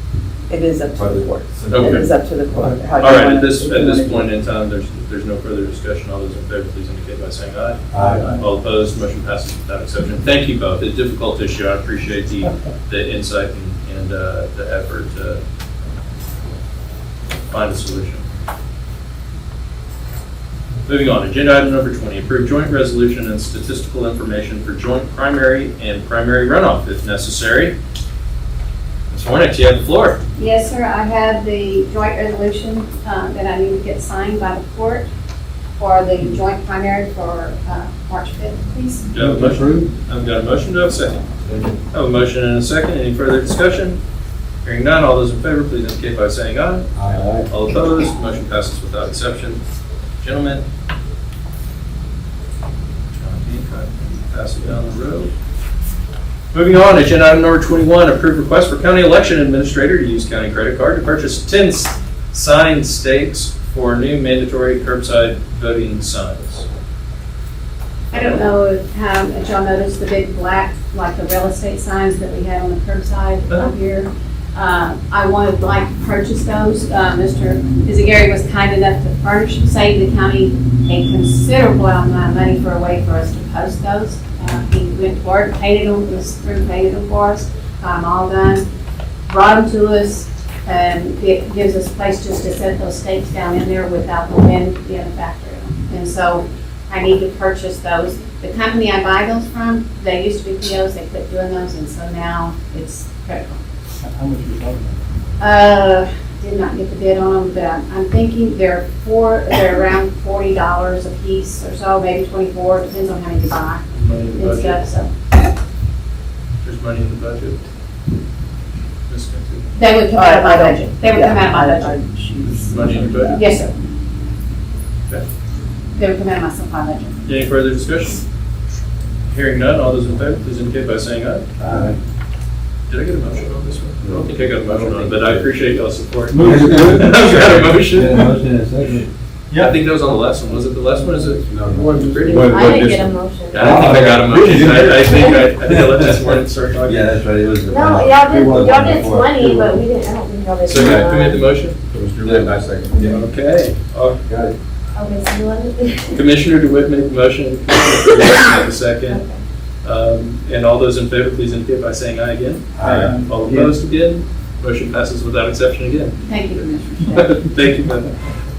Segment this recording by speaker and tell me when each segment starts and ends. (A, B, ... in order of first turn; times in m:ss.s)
0:00.5-0:04.3 A
0:01.0-0:02.0 B
0:01.7-0:02.1 C
0:02.5-0:02.8 D
0:03.0-0:15.4 C
0:07.9-0:08.3 B
0:07.9-0:08.3 D
0:17.5-0:18.2 C
0:20.9-0:27.8 C
0:29.1-0:30.2 C
0:30.4-0:35.1 E
0:35.8-0:39.1 E
0:39.1-0:41.2 C
0:39.2-0:39.9 D
0:41.5-0:41.7 B
0:41.9-0:44.0 C
0:44.6-0:49.6 C
0:47.0-0:47.4 B
0:50.2-0:50.6 C
0:53.1-0:55.3 C
0:56.5-1:06.7 C
1:08.1-1:28.7 E
1:29.3-1:43.6 E
1:44.0-1:45.0 D
1:45.4-1:55.1 E
1:53.9-1:54.8 C
1:56.6-1:57.6 C
1:59.1-1:59.6 C
1:59.8-2:02.0 E
2:00.1-2:03.6 A
2:02.4-2:03.4 C
2:03.3-2:03.7 E
2:06.0-2:07.2 E
2:07.3-2:08.2 C
2:09.3-2:11.5 C
2:11.6-2:12.0 B
2:12.9-2:18.3 C
2:14.0-2:15.5 B
2:16.3-2:18.3 D
2:16.4-2:19.1 B
2:19.5-2:19.8 D
2:19.6-2:23.0 C
2:21.4-2:24.6 B
2:22.6-2:23.5 F
2:23.5-2:27.3 C
2:23.6-2:26.0 D
2:25.8-2:26.1 B
2:26.8-2:29.8 B
2:27.7-2:31.1 F
2:28.2-2:29.5 D
2:30.6-2:34.2 C
2:30.7-2:31.2 B
2:31.9-2:33.2 B
2:34.3-2:34.5 B
2:35.0-2:36.1 F
2:36.1-2:39.2 C
2:39.8-2:46.2 C
2:42.8-2:43.2 B
2:42.8-2:43.7 D
2:46.2-2:47.4 E
2:47.1-2:48.1 C